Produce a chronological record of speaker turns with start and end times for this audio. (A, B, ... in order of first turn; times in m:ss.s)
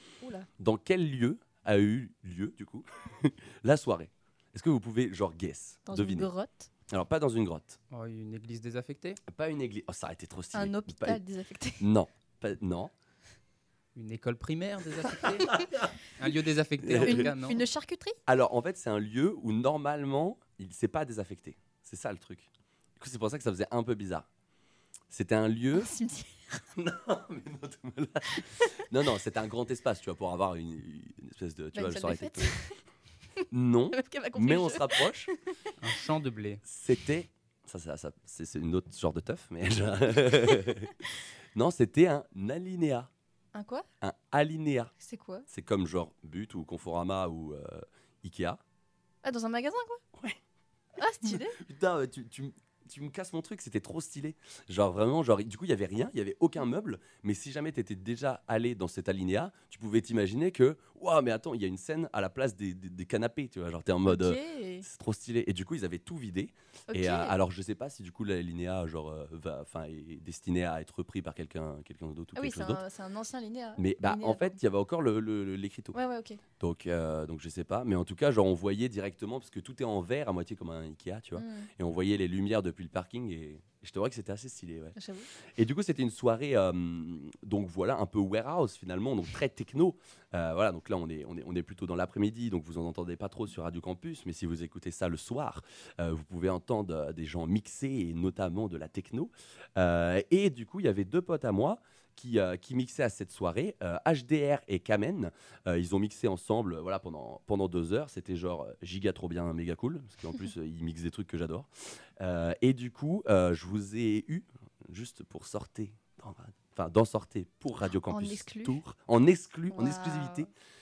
0:00.2-0:00.5 A
0:00.6-0:06.3 B
0:05.9-0:06.7 A
0:06.9-0:07.8 B
0:07.9-0:09.2 C
0:09.3-0:11.2 B
0:10.5-0:11.9 A
0:11.8-0:12.9 B
0:13.9-0:15.6 C
0:15.2-0:15.9 B
0:16.2-0:17.6 C
0:16.8-0:17.3 B
0:17.0-0:18.2 A
0:18.3-0:24.3 B
0:25.1-0:25.9 B
0:25.7-0:26.6 A
0:26.7-0:32.6 B
0:28.4-0:28.7 A
0:31.7-0:32.8 A
0:33.4-0:35.5 A
0:33.5-0:35.3 B
0:35.8-0:36.6 C
0:36.6-0:40.9 B
0:40.6-0:41.1 A
0:41.5-0:43.1 B
0:43.5-0:43.8 A
0:44.0-0:44.9 B
0:45.0-0:45.4 A
0:45.5-0:48.6 B
0:49.2-0:50.0 A
0:51.0-0:51.6 A
0:51.2-1:12.8 B
1:04.0-1:04.8 A
1:06.9-1:07.3 A
1:12.4-1:14.6 A
1:13.8-1:16.0 B
1:15.9-1:16.4 A
1:16.6-2:00.5 B
1:21.4-1:21.7 A
1:25.0-1:25.3 A
1:58.1-1:58.8 A
1:59.7-2:00.5 A